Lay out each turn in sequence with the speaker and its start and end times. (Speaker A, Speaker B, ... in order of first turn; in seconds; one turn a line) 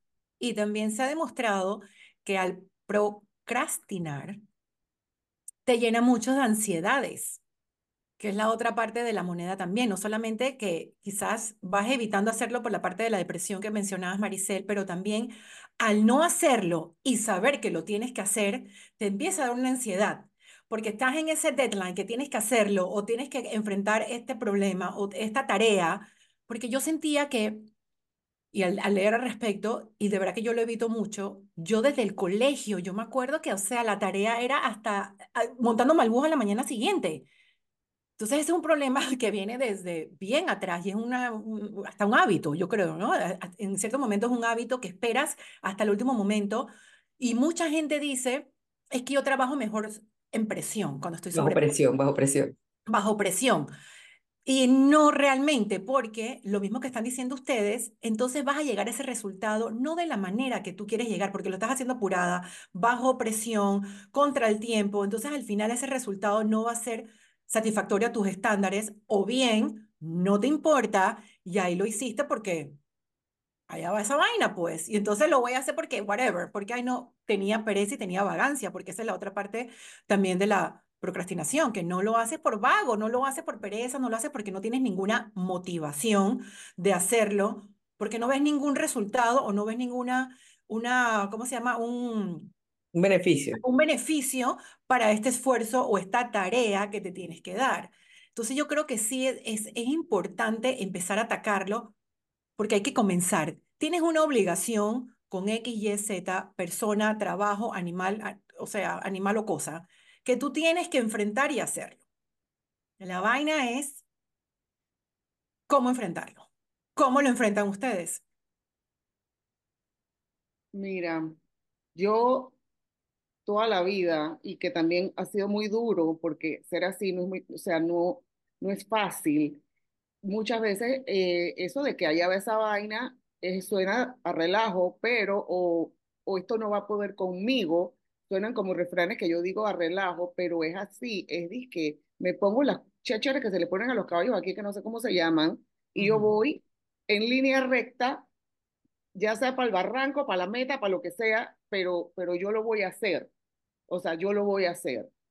Speaker A: 0.4-4.4
Speaker A: 5.6-7.4
Speaker A: 8.2-27.7
Speaker A: 28.5-37.3
Speaker A: 38.2-51.7
Speaker B: 51.3-52.5
Speaker A: 52.9-53.7
Speaker A: 54.4-72.8
Speaker A: 73.7-92.5
Speaker B: 92.9-93.6
Speaker A: 93.5-101.9
Speaker A: 102.6-112.0
Speaker A: 113.0-114.0
Speaker A: 115.7-118.2
Speaker C: 120.7-121.4
Speaker C: 121.9-122.5
Speaker C: 123.5-129.6
Speaker C: 130.2-148.2
Speaker A: 146.0-146.4
Speaker C: 149.1-153.3
Speaker C: 153.9-155.1